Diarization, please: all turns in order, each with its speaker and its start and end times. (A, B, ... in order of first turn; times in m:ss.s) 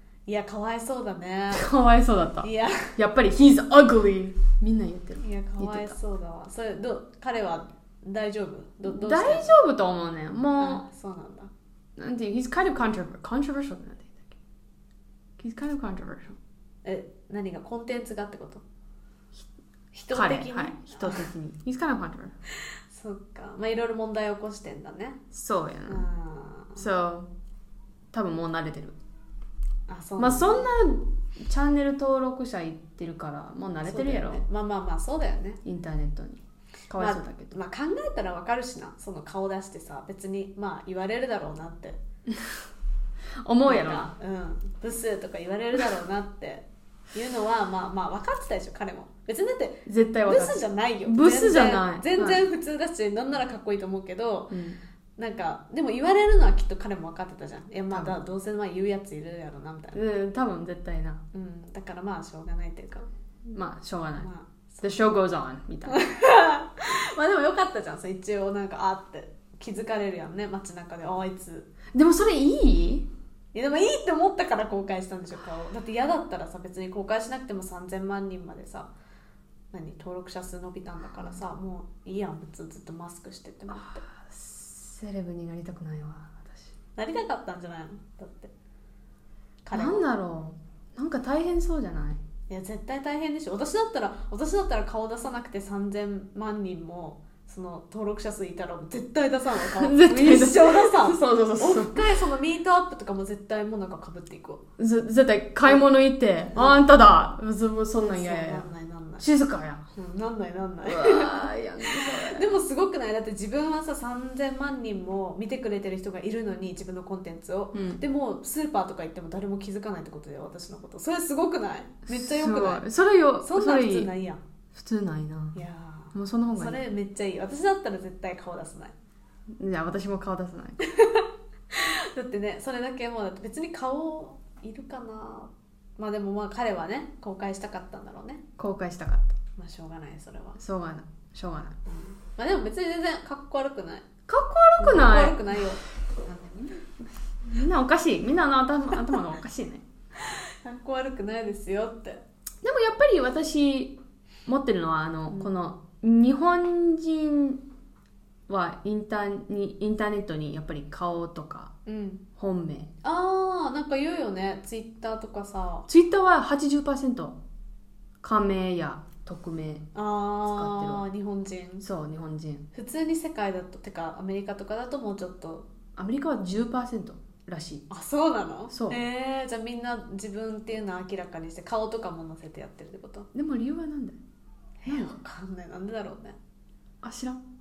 0:00.3-0:01.7 A
0:01.5-0:06.0 B
0:02.4-0:03.0 A
0:05.2-0:09.5 A
0:08.8-0:10.8 B
0:10.6-0:11.5 A
0:12.0-0:14.3 B
0:15.4-0:16.4 B
0:16.8-0:18.6 A
0:19.9-0:21.3 A
0:20.1-0:22.3 B
0:22.9-0:25.2 A
0:25.3-0:26.0 B
0:25.9-0:26.9 A
0:26.8-0:27.3 B
0:28.1-0:29.0 B
0:29.9-0:30.7 A
0:30.2-0:34.4 B
0:33.8-0:35.6 A
0:35.6-0:37.6 B
0:37.0-0:42.0 A
0:42.3-0:42.6 B
0:43.4-0:44.1 B
0:43.6-0:54.6 A
0:49.8-0:52.4 B
0:54.5-0:54.8 B
0:55.2-1:00.0 A
0:57.9-0:58.2 B
0:59.9-1:01.2 B
1:01.3-1:03.1 A
1:03.5-1:04.3 B
1:04.2-1:04.8 A
1:04.8-1:06.0 B
1:05.8-1:11.7 A
1:11.9-1:13.1 B
1:13.5-1:18.9 A
1:19.7-1:24.0 A
1:23.7-1:26.7 B
1:27.0-1:28.5 A
1:29.6-1:30.0 A
1:29.7-1:32.2 B
1:32.5-1:44.6 A
1:39.7-1:42.1 B
1:44.8-1:48.6 B
1:46.5-1:46.8 A
1:48.0-1:49.3 A
1:49.2-1:49.8 B
1:49.9-2:02.8 A
1:50.8-1:52.6 B
1:57.7-1:58.0 B
2:02.1-2:04.1 B
2:03.4-2:04.4 A
2:04.7-2:05.6 B
2:05.5-2:08.9 A
2:06.1-2:06.8 B
2:09.6-2:10.8 B
2:10.8-2:18.4 A
2:18.6-2:19.4 B
2:19.6-2:20.6 A
2:20.6-2:21.8 B
2:21.8-2:24.0 A
2:24.3-2:25.4 B
2:24.8-2:26.8 A
2:27.4-2:29.8 B
2:30.2-2:32.2 A
2:32.6-2:37.6 B
2:35.3-2:35.5 A
2:38.5-2:41.7 B
2:41.8-2:42.2 A
2:42.4-2:42.9 B
2:43.0-2:45.9 A
2:45.9-2:47.4 B
2:48.2-2:49.9 B
2:49.9-2:51.8 A
2:50.4-2:51.0 B
2:51.8-2:52.6 B
2:52.7-2:55.7 A
2:56.0-2:57.8 B
2:57.9-3:03.3 A
2:58.7-2:59.0 B
3:03.3-3:04.2 B
3:04.8-3:06.4 A
3:04.8-3:05.1 B
3:07.0-3:07.4 B